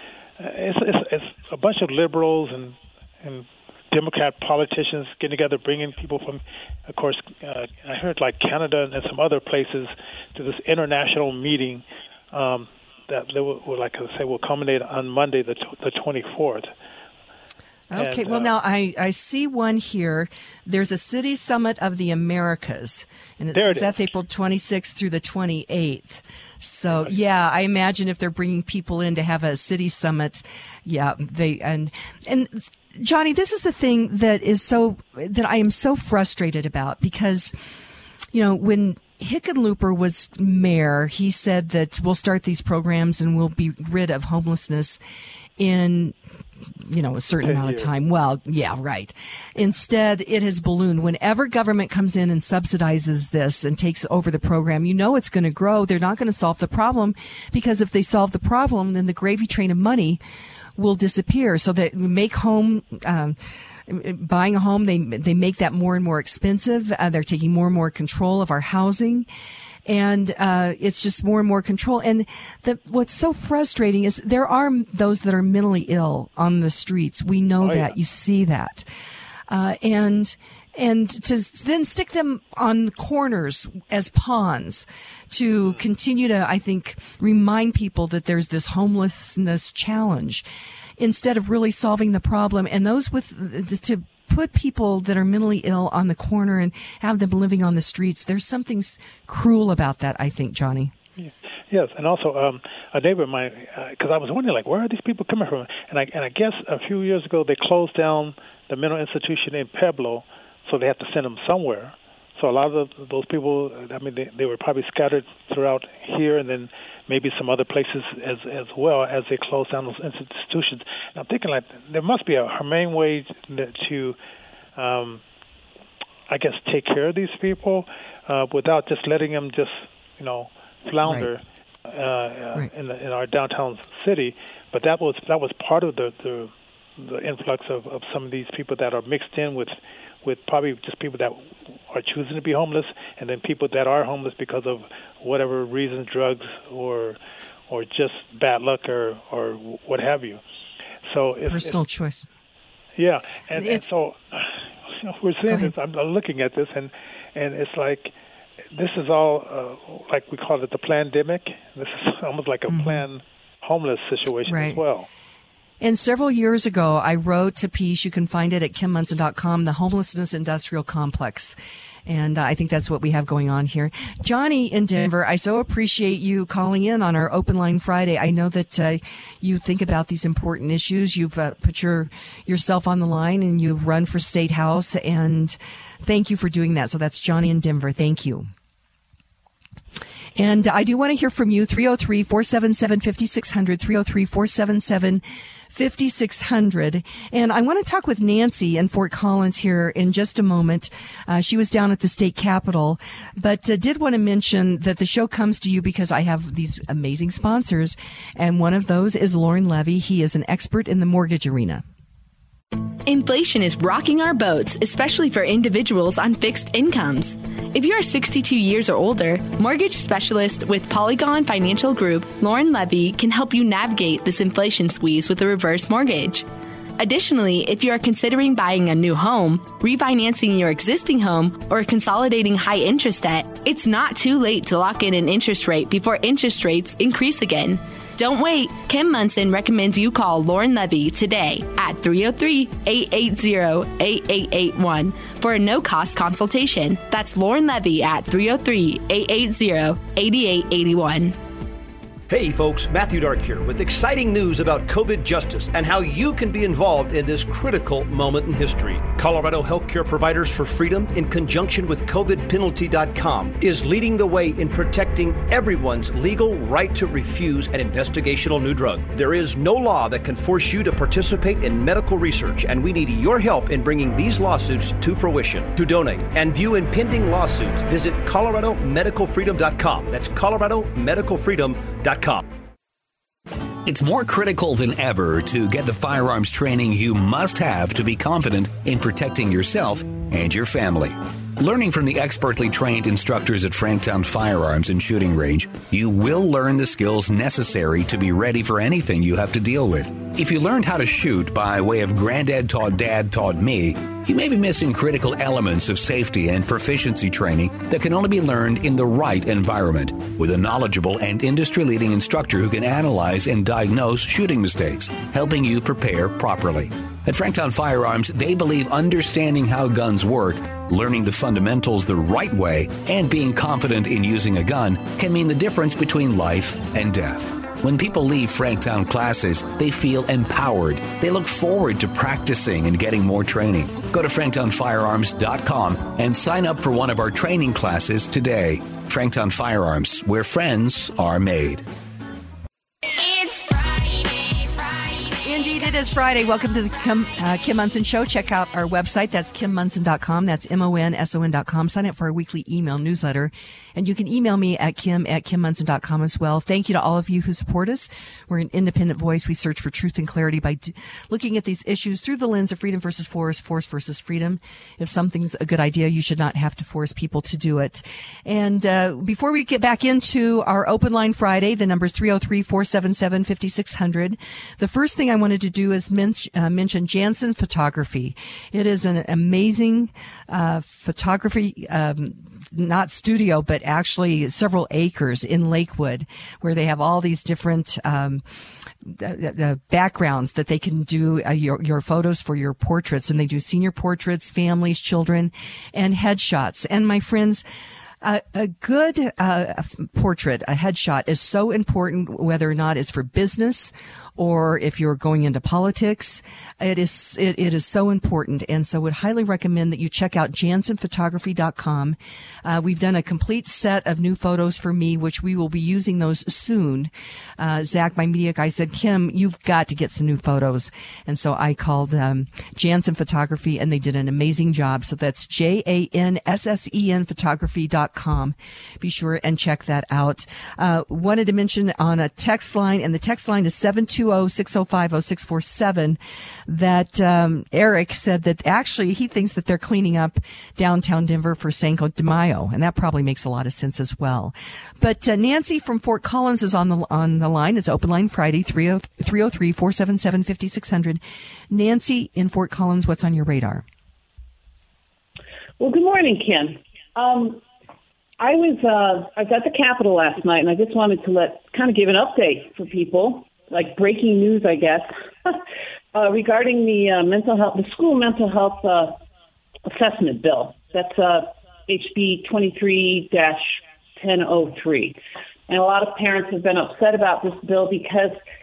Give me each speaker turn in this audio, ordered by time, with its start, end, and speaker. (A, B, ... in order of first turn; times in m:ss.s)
0:00.4-0:16.7 A
0:17.9-0:37.5 B
0:17.9-0:18.6 A
0:23.5-0:24.0 A
0:38.3-0:45.0 B
0:45.6-0:46.2 B
0:46.9-1:00.2 B
0:47.4-0:47.9 A
1:00.8-1:03.4 B
1:03.9-1:09.3 B
1:09.9-1:18.9 B
1:17.6-1:17.9 A
1:19.5-1:30.4 B
1:31.0-1:40.9 B
1:41.2-2:04.2 A
2:04.8-2:05.2 A
2:06.3-2:27.2 A
2:27.7-2:30.4 A
2:31.1-2:31.8 A
2:31.5-2:32.3 B
2:33.0-2:38.1 A
2:33.6-2:33.8 B
2:35.5-2:35.7 B
2:38.7-2:45.1 A
2:42.7-2:43.1 B
2:44.5-2:44.8 B
2:45.8-3:08.5 B
3:10.4-3:31.8 B
3:33.0-3:46.5 C
3:47.0-4:11.4 C
4:12.3-4:42.4 D
4:43.8-5:41.8 E
5:43.4-5:43.7 C
5:45.4-6:28.4 B
6:29.0-6:37.6 B
6:38.2-7:33.8 B
7:35.8-7:37.6 F
7:38.4-7:45.6 F
7:46.1-7:49.2 F
7:49.9-7:58.4 F